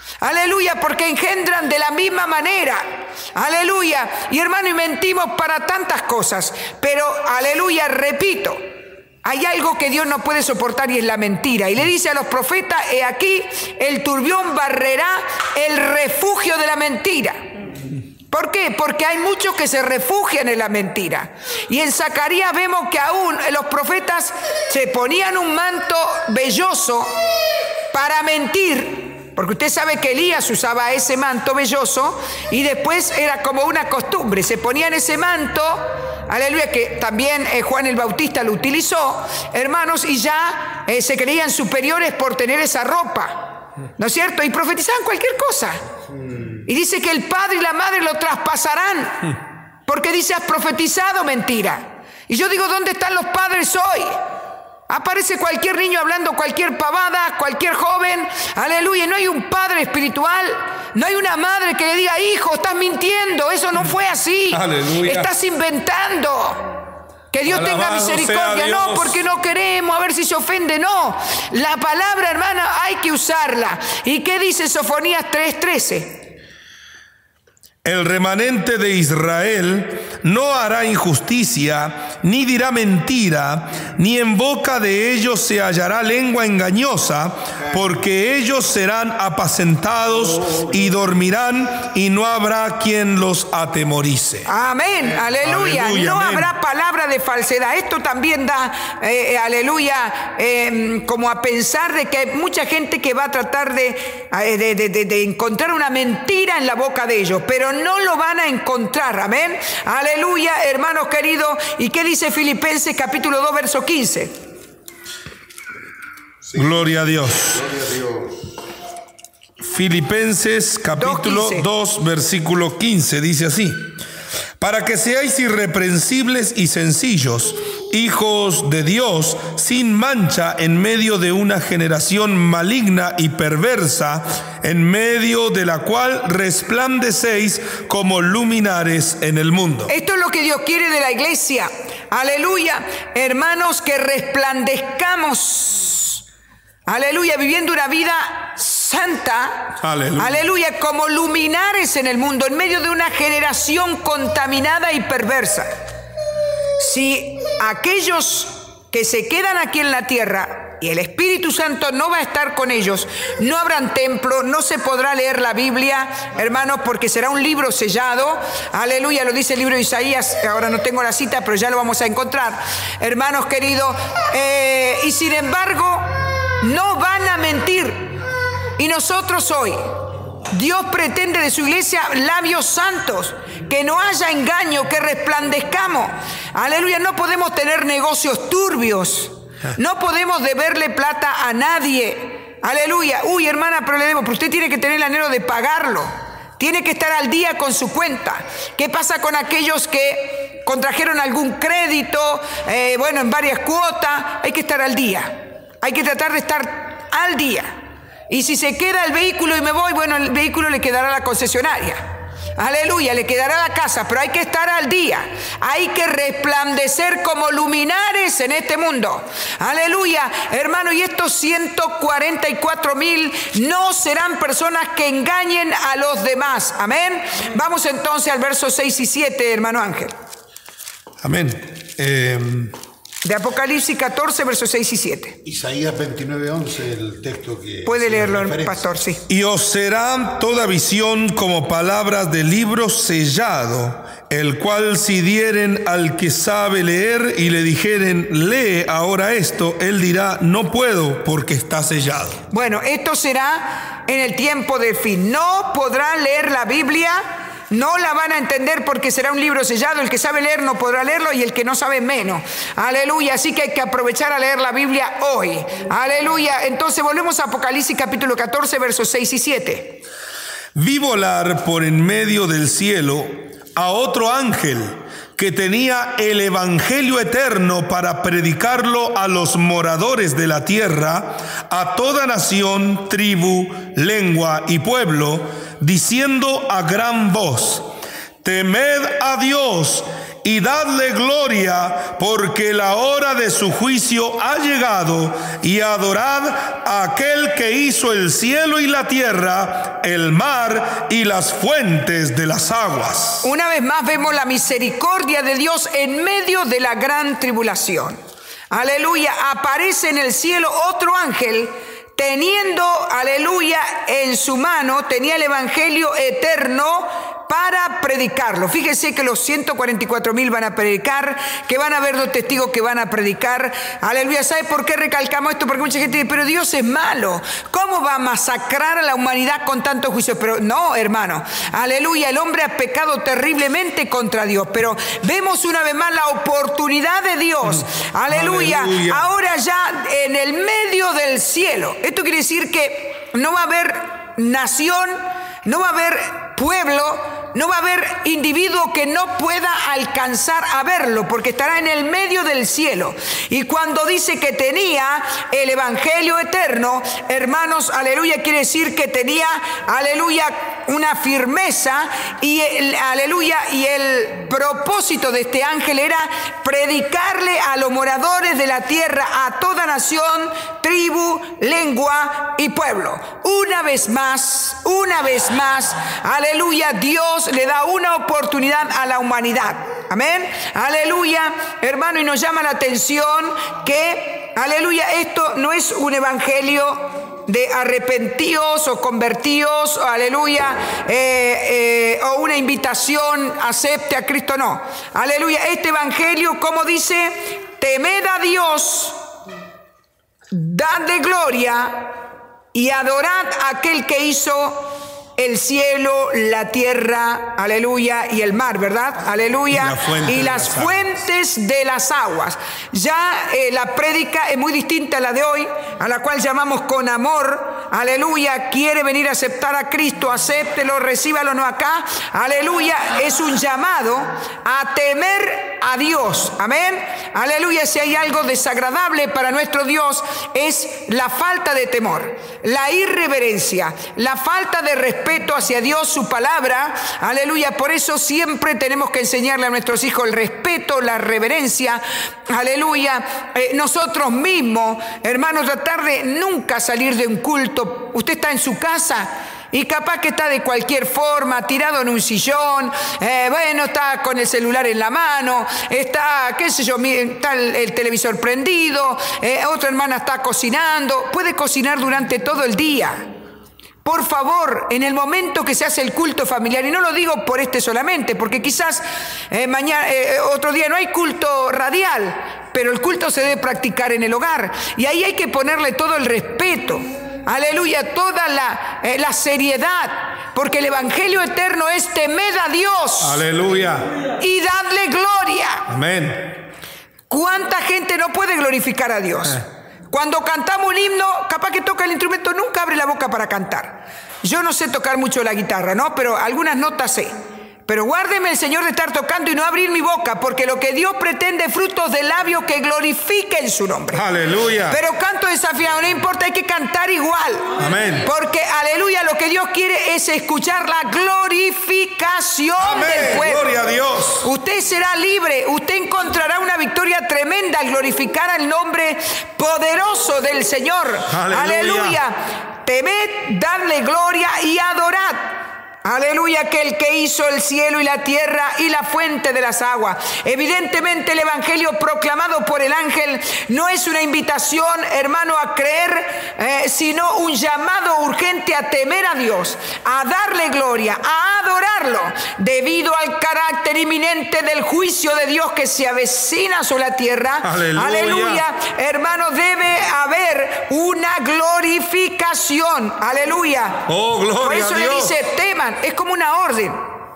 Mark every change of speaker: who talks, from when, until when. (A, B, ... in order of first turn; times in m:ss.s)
0:00.2-0:08.6 A
0:09.2-0:17.4 A
0:18.3-0:27.2 A
0:27.9-0:43.4 A
0:44.0-0:45.8 A
0:46.6-0:54.2 A
0:54.9-1:06.7 A
1:04.5-1:05.3 B
1:07.3-1:16.2 A
1:07.4-1:09.2 B
1:17.8-1:34.5 B
1:34.5-1:54.3 A
1:35.4-1:36.5 B
1:56.5-1:56.9 C
1:56.6-1:57.6 B
1:57.4-1:58.5 C
1:59.6-2:03.9 B
2:01.0-2:01.7 A
2:04.6-2:19.9 B
2:19.9-2:26.2 A
2:26.9-2:35.7 A
2:29.8-2:30.4 B
2:36.8-2:58.2 A
2:58.8-2:59.9 A
3:00.5-3:27.8 A
3:28.3-3:32.0 A
3:32.6-3:50.1 A
3:51.2-3:52.7 B
3:53.2-3:55.4 A
3:55.4-3:58.9 C
3:57.8-3:59.2 A
3:59.3-4:12.4 B
4:12.5-4:30.0 A
4:30.7-4:47.8 B
4:48.4-5:03.5 B
5:03.4-5:08.2 A
5:08.7-6:39.2 A
5:37.7-5:39.2 B
6:40.5-6:42.2 A
6:42.7-7:43.2 A
6:49.7-6:51.0 B
7:44.0-8:03.4 A
8:03.2-8:04.1 B
8:04.4-8:05.8 A
8:05.9-8:06.6 B
8:07.3-8:17.3 A
8:17.9-8:24.2 A
8:24.1-8:25.0 B
8:24.9-8:27.7 A
8:27.8-8:28.2 B
8:28.2-8:33.7 A
8:32.8-8:34.4 B
8:34.4-9:14.0 A
8:41.3-8:42.2 B
9:07.6-9:08.6 B
9:14.1-9:15.3 B
9:14.6-9:17.0 A